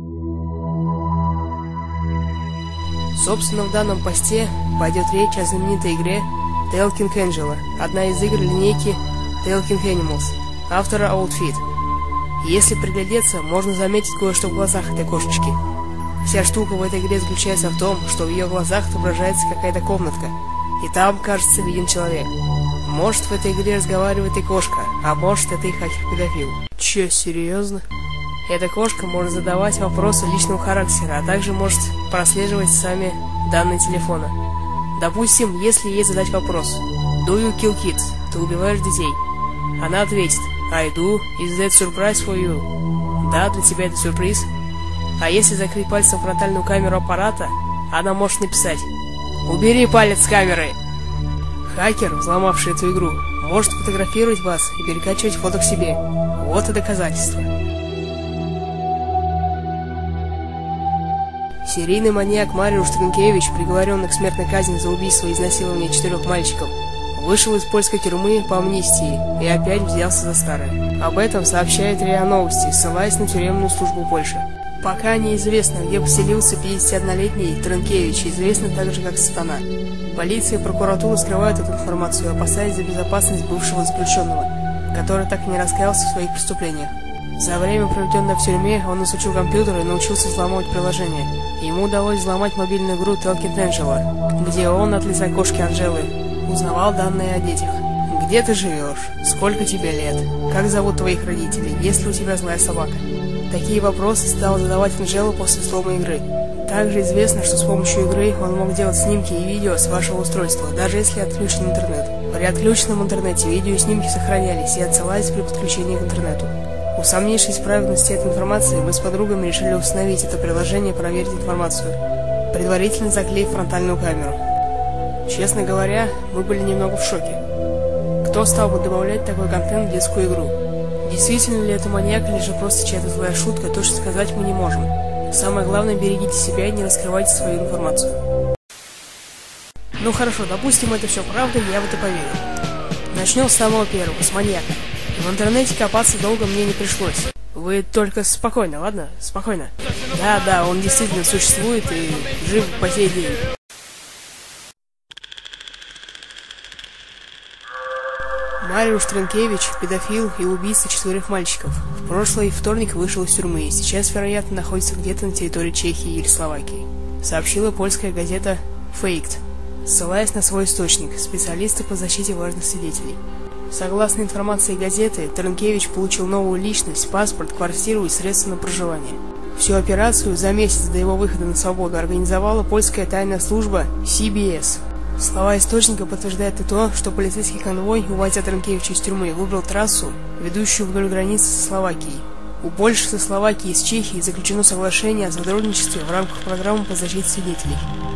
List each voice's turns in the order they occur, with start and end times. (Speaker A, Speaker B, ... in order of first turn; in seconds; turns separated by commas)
Speaker A: 3.1-11.6, Speaker A: 12.4-15.6, Speaker A: 16.2-27.9, Speaker A: 28.4-34.4, Speaker A: 34.9-39.2, Speaker A: 39.8-44.5, Speaker A: 45.2-48.9, Speaker A: 49.5-50.8, Speaker A: 51.6-57.5, Speaker A: 61.6-122.0, Speaker A: 122.5-124.4, Speaker A: 125.2-127.4, Speaker A: 128.2-138.2, Speaker A: 140.0-142.4, Speaker A: 143.1-153.4, Speaker A: 158.6-197.9